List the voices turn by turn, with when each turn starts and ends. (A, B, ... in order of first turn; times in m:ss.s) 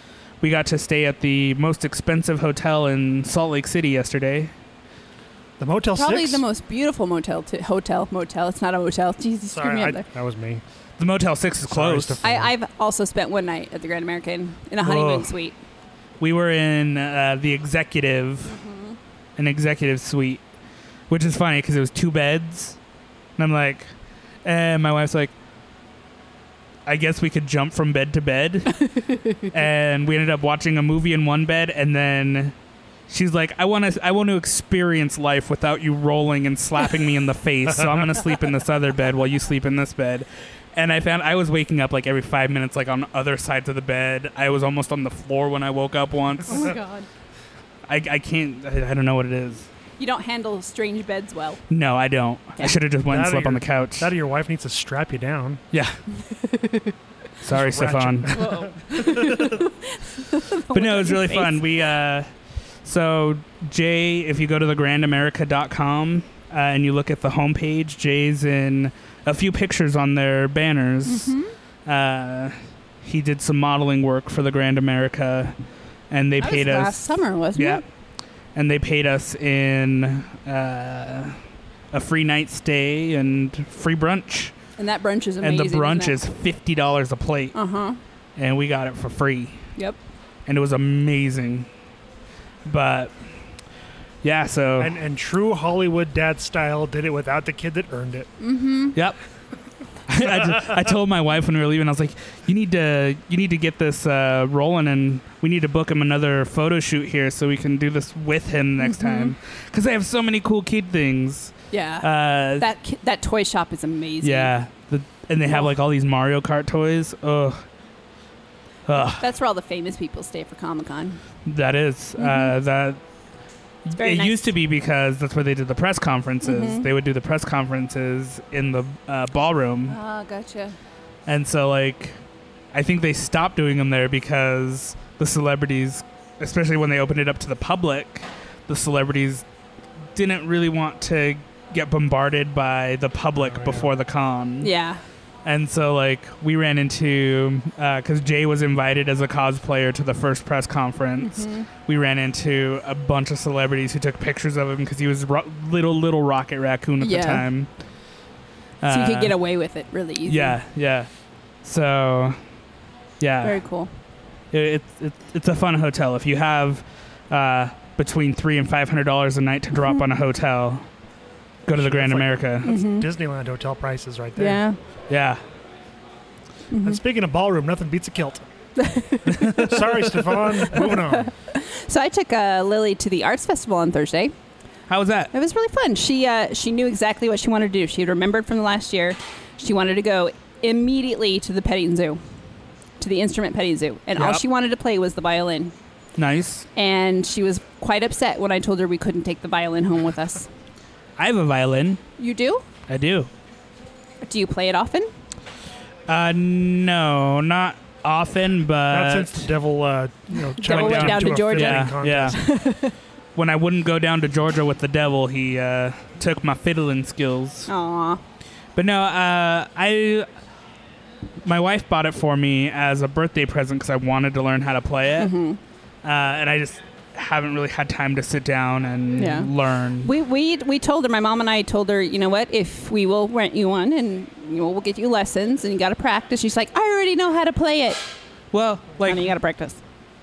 0:00.4-0:04.5 A
0:05.6-0:06.4 B
0:06.0-0:10.0 C
0:09.5-0:10.6 B
0:11.0-0:12.2 A
0:11.7-0:12.5 B
0:12.2-0:15.6 C
0:14.8-0:15.3 A
0:16.2-0:18.6 A
0:18.4-0:19.0 C
0:19.4-0:20.4 A
0:21.1-0:22.8 A
0:23.4-0:23.9 A
0:24.4-0:25.3 A
0:26.9-0:32.5 A
0:33.1-0:46.7 A
0:46.5-0:47.1 C
0:47.9-0:49.7 A
0:50.0-0:51.6 C
0:51.7-0:54.1 A
0:53.1-0:55.6 B
0:55.7-0:56.0 A
0:57.4-0:58.4 A
0:57.5-0:59.0 B
0:58.3-1:01.6 C
0:59.1-0:59.6 A
1:00.7-1:02.3 A
1:02.8-1:11.4 A
1:11.0-1:11.5 C
1:11.9-1:15.5 A
1:16.1-1:17.8 A
1:16.4-1:17.8 C
1:18.6-1:21.4 A
1:21.9-1:24.5 A
1:24.8-1:26.2 C
1:25.4-1:27.6 A
1:27.5-1:28.0 C
1:28.4-1:29.6 A
1:30.5-1:31.7 A
1:32.6-1:33.1 A
1:34.2-1:35.0 A
1:34.8-1:38.3 B
1:38.4-1:39.0 C
1:38.9-1:39.2 A
1:40.1-1:52.7 A
1:48.8-1:49.4 C
1:51.7-1:54.5 C
1:54.2-1:57.6 A
1:58.9-1:59.2 A
1:59.0-2:01.2 C
2:01.5-2:03.0 A
2:02.2-2:02.6 C
2:03.9-2:10.0 A
2:04.0-2:04.5 C
2:06.4-2:06.9 C
2:09.9-2:10.8 C
2:11.3-2:12.2 A
2:12.7-2:19.4 A
2:20.1-2:24.7 A
2:23.4-2:23.9 B
2:24.6-2:25.0 C
2:25.4-2:37.7 A
2:31.2-2:31.7 C
2:37.0-2:37.4 C
2:38.8-2:39.4 A
2:38.9-2:40.6 C
2:40.2-2:41.1 A
2:41.6-2:42.4 A
2:43.2-2:43.6 A
2:43.4-2:43.9 C
2:44.5-2:50.9 A
2:51.6-2:52.7 A
2:51.7-2:54.6 B
2:52.6-2:53.1 C
2:54.4-2:54.8 C
2:55.1-2:55.4 A
2:56.7-2:57.0 C
2:56.8-2:58.5 B
2:58.8-2:59.7 C
2:59.3-3:00.1 A
2:59.6-3:01.3 B
3:00.7-3:04.3 C
3:04.9-3:05.3 A
3:05.3-3:12.2 C
3:13.0-3:15.7 C
3:14.2-3:14.4 A
3:16.2-3:16.7 A
3:16.8-3:20.5 C
3:21.2-3:22.0 A
3:22.2-3:22.6 C
3:22.9-3:23.3 A
3:24.2-3:25.1 C
3:26.1-3:29.5 A
3:28.9-3:32.4 B
3:30.6-3:33.0 C
3:30.6-3:32.4 A
3:33.4-3:37.7 A
3:37.7-3:38.2 C
3:38.8-3:40.3 A
3:41.4-3:45.3 A
3:45.2-3:45.6 C
3:46.0-3:50.1 A
3:49.2-3:49.5 C
3:50.0-3:58.0 C
3:58.5-3:59.3 A
3:59.0-3:59.8 C